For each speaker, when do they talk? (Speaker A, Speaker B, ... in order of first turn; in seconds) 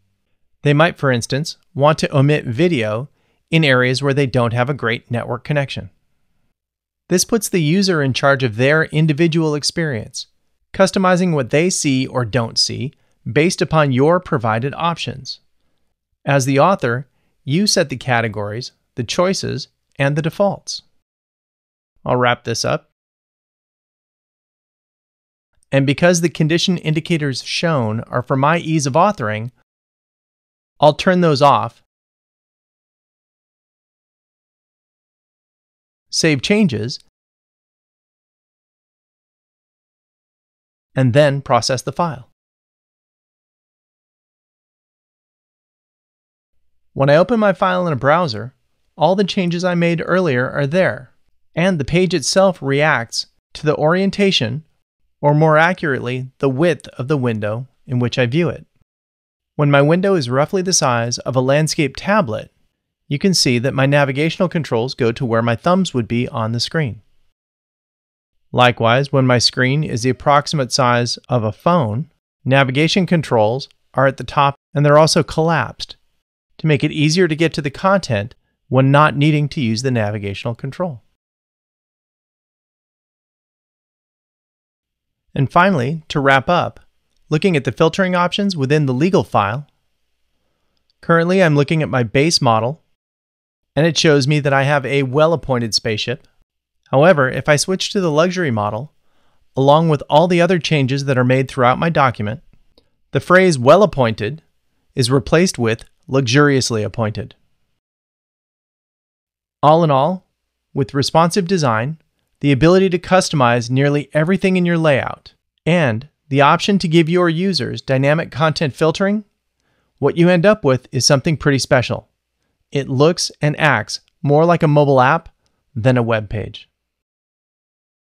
Speaker A: 0.6-5.9, 7.1-15.4, 16.3-20.8, 22.1-22.9, 25.7-29.5, 30.8-31.8, 36.1-37.0, 41.0-42.3, 46.9-54.6, 55.2-58.7, 59.6-62.5, 63.1-67.0, 68.5-76.0, 76.6-81.0, 85.3-89.7, 91.0-92.8, 93.8-96.2, 96.9-98.9, 99.5-102.4, 103.1-104.4, 105.0-107.3, 109.6-119.3, 120.0-122.1, 122.7-126.7